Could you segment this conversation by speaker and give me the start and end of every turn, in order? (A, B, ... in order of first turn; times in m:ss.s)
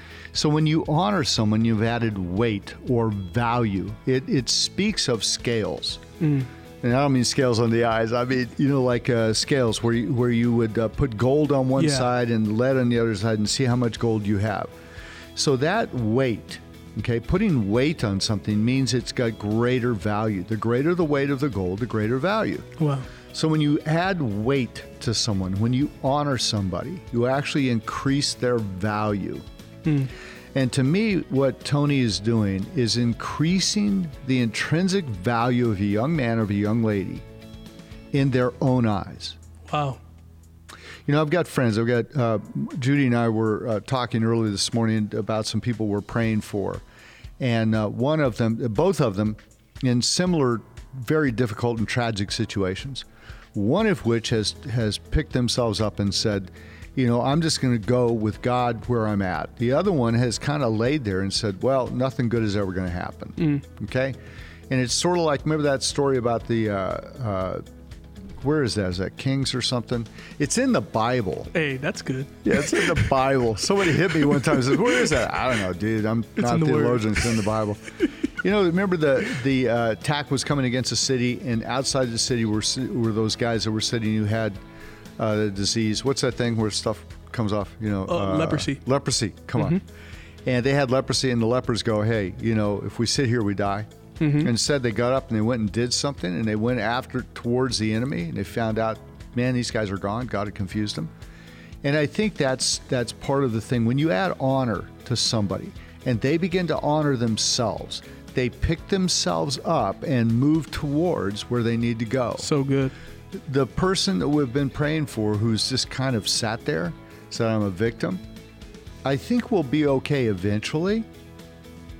0:00.3-0:06.0 A
0:06.2-0:06.5 B
0:06.8-0:14.7 A
0:11.8-0:12.1 B
0:15.4-0:22.7 A
0:22.8-0:23.1 B
0:23.3-0:29.4 A
0:29.8-0:30.1 B
0:30.5-0:37.2 A
0:38.1-0:39.4 A
0:39.7-0:40.0 B
0:41.0-0:46.8 A
0:47.4-1:04.2 A
1:04.7-1:07.6 A
1:08.4-1:11.5 A
1:11.5-1:12.9 B
1:12.4-1:24.6 A
1:16.4-1:17.5 B
1:25.2-1:29.8 A
1:28.1-1:28.8 B
1:30.4-1:33.9 A
1:34.2-1:34.5 B
1:34.4-1:41.1 A
1:41.8-1:52.5 A
1:52.4-1:52.9 B
1:53.3-1:58.2 A
1:59.0-2:01.1 A